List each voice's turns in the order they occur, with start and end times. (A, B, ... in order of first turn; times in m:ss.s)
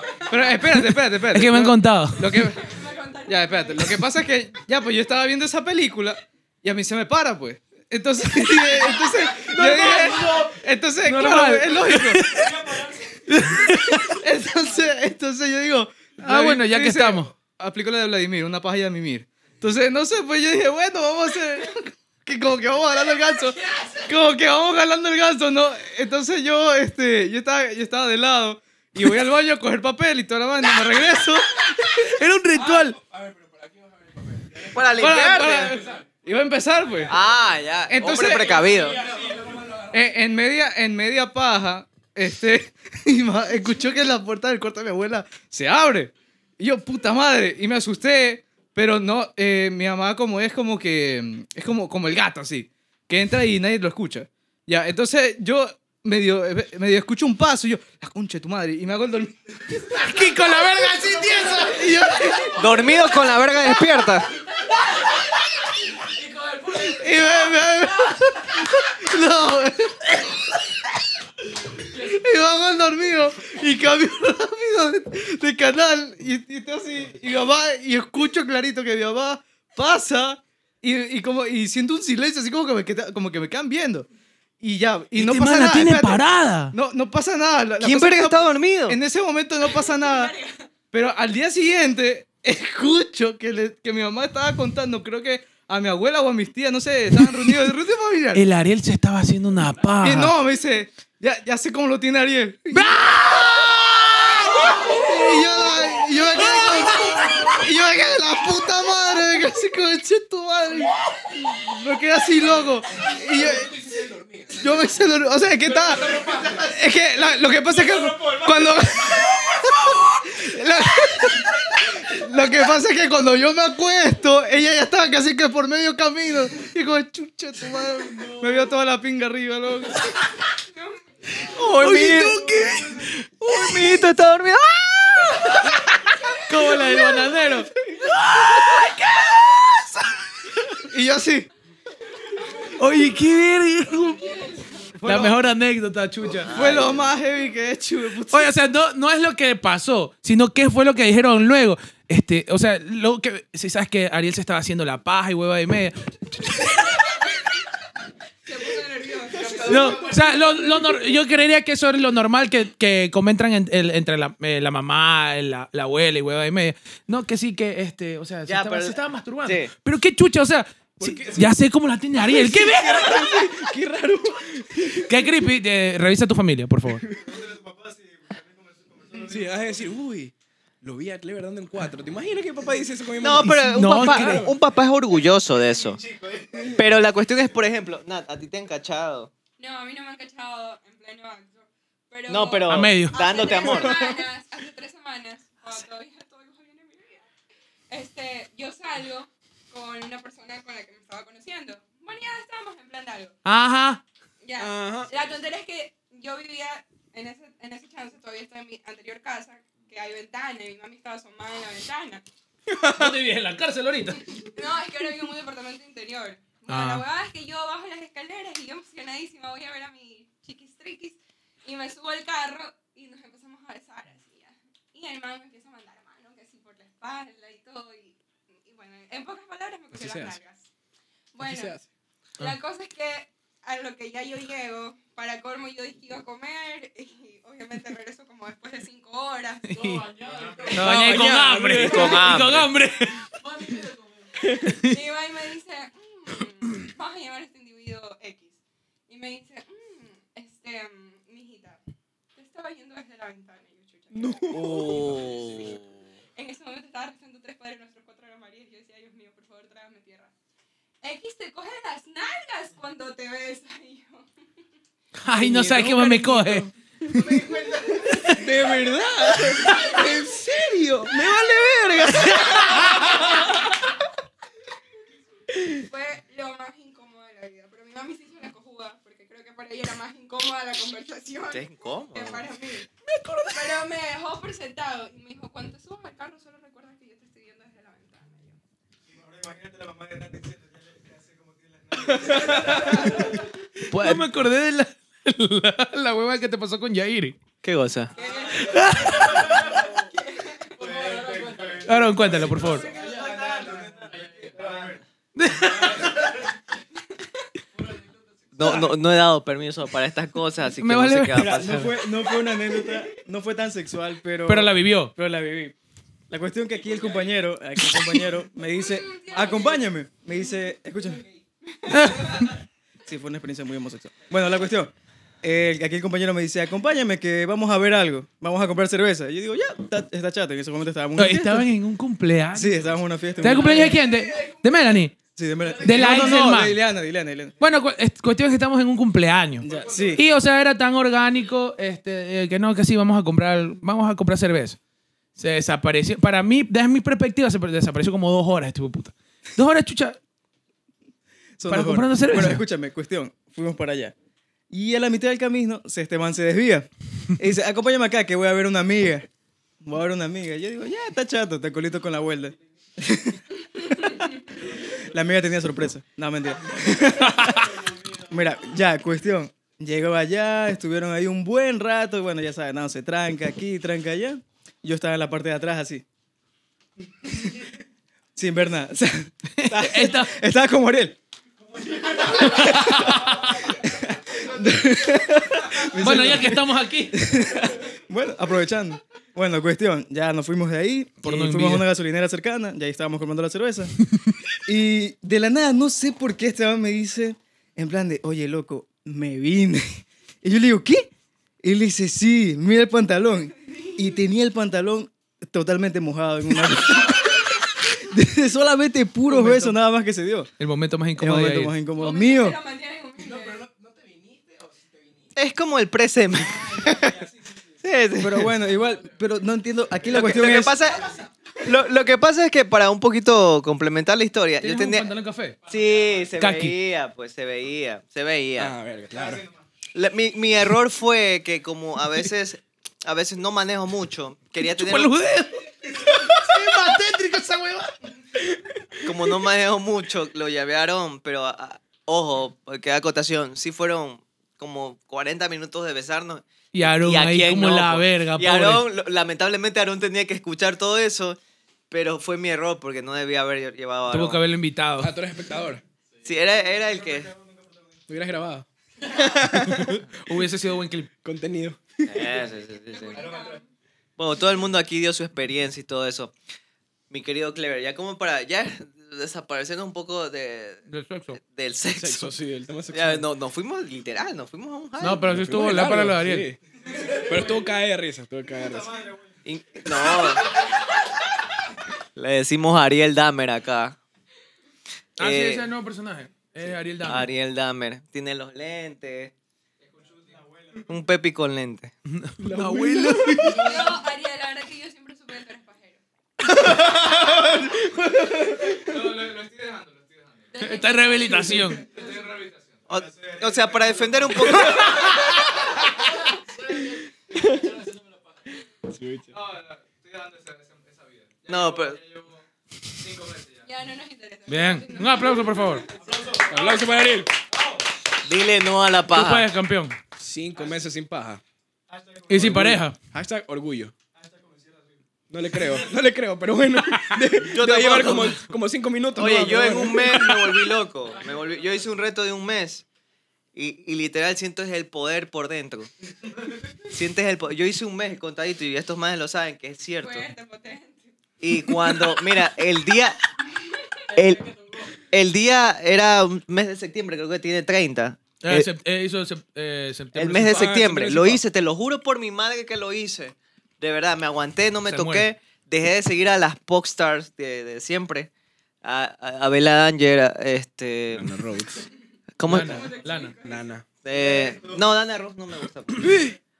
0:00.1-0:02.7 A
0:00.6-0:02.5 B
0:02.4-0:04.1 C
0:03.3-0:12.3 A
0:09.4-0:14.2 B
0:13.7-0:32.0 A
0:16.2-0:17.3 B
0:31.8-0:33.0 B
0:32.8-0:34.8 D
0:34.7-0:35.8 E
0:34.9-0:37.2 A
0:37.1-0:39.0 E
0:37.9-0:38.6 A
0:38.5-0:40.0 D
0:39.9-1:02.8 A
0:59.9-1:02.2 B
1:02.6-1:04.3 E
1:06.6-1:10.3 A
1:11.9-1:24.1 A
1:24.6-1:26.2 A
1:25.2-1:26.8 B
1:26.7-1:30.3 A
1:27.8-1:29.0 E
1:29.6-1:30.7 C
1:30.9-1:38.4 A
1:37.2-1:37.7 B
1:38.3-1:40.3 B
1:40.0-1:53.8 A
1:42.7-1:47.5 B
1:53.1-1:54.7 D
1:54.5-2:10.1 A
1:56.0-1:56.4 D
2:08.2-2:08.6 B
2:10.7-2:11.1 C
2:11.5-2:12.5 E
2:11.7-2:14.1 B
2:13.4-2:15.8 E
2:16.4-2:19.8 B
2:16.6-2:17.7 A
2:18.7-2:19.0 E
2:20.8-2:21.5 A
2:22.8-2:24.4 B
2:25.0-2:25.4 A
2:25.0-2:26.8 B
2:26.4-2:27.1 E
2:26.5-2:28.5 A
2:28.3-2:37.1 B
2:38.5-2:40.1 C
2:39.4-2:40.0 F
2:39.6-2:53.5 B
2:48.5-2:49.7 E
2:51.0-2:51.6 D
2:52.2-2:55.3 D
2:55.0-2:57.0 B
2:57.0-2:57.4 D
2:57.1-2:59.9 F
2:59.3-3:04.6 D
3:03.2-3:06.0 E
3:03.4-3:04.5 B
3:05.8-3:06.8 F
3:06.7-3:09.3 E
3:09.6-3:17.3 C
3:12.3-3:14.2 E
3:12.7-3:13.2 B
3:17.9-3:23.4 C
3:23.4-3:24.0 B
3:24.4-3:32.2 C
3:24.6-3:25.1 D
3:32.8-3:33.1 D
3:32.8-3:34.4 B
3:34.4-3:50.7 C
3:36.7-3:37.0 B
3:49.9-3:50.4 D
3:51.3-3:51.8 C
3:51.4-3:51.9 D
3:52.4-4:00.7 C
3:59.7-4:00.1 B
4:00.7-4:02.6 D
4:00.7-4:03.9 B
4:00.8-4:02.7 E
4:04.4-4:04.8 D
4:04.6-4:05.0 B
4:04.8-4:11.8 C
4:12.4-4:15.3 C
4:14.1-4:15.7 D
4:14.5-4:15.9 E
4:16.4-4:20.3 C
4:21.0-4:24.3 C
4:25.2-4:26.7 B
4:25.3-4:26.7 D
4:27.2-4:28.0 F
4:28.1-4:28.5 B
4:28.2-4:30.5 D
4:29.6-4:29.9 C
4:30.0-4:32.4 G
4:31.1-4:31.7 D
4:32.4-4:33.3 C
4:35.7-4:48.6 C
4:41.5-4:42.5 E
4:49.1-4:53.4 F
4:52.3-4:53.2 D
4:52.8-4:53.2 B
4:53.9-4:57.4 B
4:57.6-4:58.1 E
4:58.2-5:01.1 C
4:58.2-4:58.6 F
4:58.6-4:59.5 B
4:59.1-4:59.9 F
5:00.8-5:06.3 F
5:01.8-5:02.9 B
5:05.4-5:06.3 B
5:08.6-5:12.0 E
5:10.8-5:11.6 B
5:11.3-5:15.8 G
5:14.5-5:15.1 B
5:16.3-5:21.2 G
5:18.7-5:19.9 C
5:21.7-5:22.4 C
5:21.9-5:22.5 B
5:23.1-5:31.7 G
5:31.2-5:35.2 B
5:32.5-5:34.0 G
5:35.4-5:37.6 G
5:35.8-5:36.8 B
5:37.6-5:44.8 B
5:39.6-5:40.2 G
5:39.7-5:40.2 F
5:45.4-5:50.2 B
5:51.6-5:54.2 G
5:51.7-5:52.6 B
5:54.7-5:59.3 G
5:59.8-6:07.7 G
6:08.3-6:16.0 G
6:18.4-6:21.2 G
6:19.6-6:20.3 B
6:22.4-6:23.4 B
6:22.6-6:23.1 G
6:23.8-6:34.0 G
6:26.0-6:27.3 B
6:31.2-6:31.9 B
6:34.7-6:41.1 G
6:41.6-6:50.5 G
6:49.3-6:49.7 A
6:50.6-6:51.7 B
6:51.2-6:52.6 G
6:52.0-6:53.6 C
6:53.2-6:55.3 D
6:55.4-6:57.2 E
6:56.9-6:57.3 F
6:57.8-6:58.6 E
6:58.2-7:00.8 G
7:00.0-7:05.1 E
7:04.6-7:05.6 B
7:05.7-7:06.3 F
7:05.7-7:08.8 E
7:06.4-7:06.8 B
7:08.6-7:09.4 D
7:09.1-7:09.6 F
7:09.9-7:15.1 E
7:14.6-7:17.9 B
7:19.0-7:31.4 E
7:26.7-7:28.9 B
7:31.9-7:34.4 E
7:34.1-7:35.1 B
7:35.0-7:35.8 D
7:36.2-7:38.3 F
7:36.2-7:37.3 E
7:38.1-7:40.0 D
7:39.2-7:39.4 E
7:39.6-7:41.1 B
7:41.2-7:42.4 D
7:42.0-7:43.3 E
7:42.9-7:43.7 C
7:43.1-7:43.6 F
7:44.2-7:46.3 E
7:47.1-7:50.8 E
7:50.9-7:51.4 B
7:51.4-7:52.3 E
7:51.9-7:53.3 D
7:52.9-7:55.3 E
7:55.0-7:56.5 B
7:55.2-7:59.0 D
7:56.8-7:57.6 F
7:58.6-7:59.4 F
7:59.5-8:00.6 E
8:02.2-8:04.0 E
8:05.2-8:05.6 E
8:05.2-8:07.3 B
8:07.0-8:09.3 E
8:09.8-8:11.1 F
8:10.9-8:11.9 E
8:12.1-8:13.8 B
8:12.4-8:13.8 D
8:13.5-8:13.8 F
8:13.5-8:16.0 C
8:16.7-8:17.9 F
8:18.0-8:18.9 D
8:18.6-8:20.8 F
8:20.5-8:22.0 C
8:20.6-8:21.9 B
8:21.6-8:28.0 F
8:22.9-8:25.2 E
8:27.4-8:27.7 D
8:28.9-8:29.3 D
8:29.3-8:33.7 F
8:31.5-8:32.0 E
8:33.6-8:36.7 C
8:34.5-8:35.8 B
8:35.9-8:37.0 F
8:36.4-8:37.3 D
8:37.5-8:37.8 F
8:38.2-8:39.5 E
8:39.1-8:40.0 B
8:40.2-8:41.4 D
8:41.9-8:42.7 F
8:42.3-8:43.0 B
8:42.3-8:43.9 D
8:44.1-8:45.0 F
8:45.3-8:50.8 D
8:45.5-8:45.8 F
8:47.4-8:48.4 E
8:49.2-8:52.8 E
8:51.2-8:51.8 F
8:53.6-8:55.9 E
8:56.8-9:00.3 E
9:00.0-9:01.1 C
9:01.4-9:03.2 E
9:03.6-9:03.9 C
9:04.1-9:08.7 E
9:08.4-9:10.8 B
9:10.2-9:18.3 E
9:10.4-9:11.4 D
9:14.8-9:15.3 B
9:18.8-9:21.3 E
9:21.1-9:21.9 D
9:22.4-9:23.0 E
9:22.5-9:23.4 B
9:22.6-9:23.6 F
9:23.4-9:23.9 D
9:24.0-9:26.3 E
9:24.1-9:24.9 F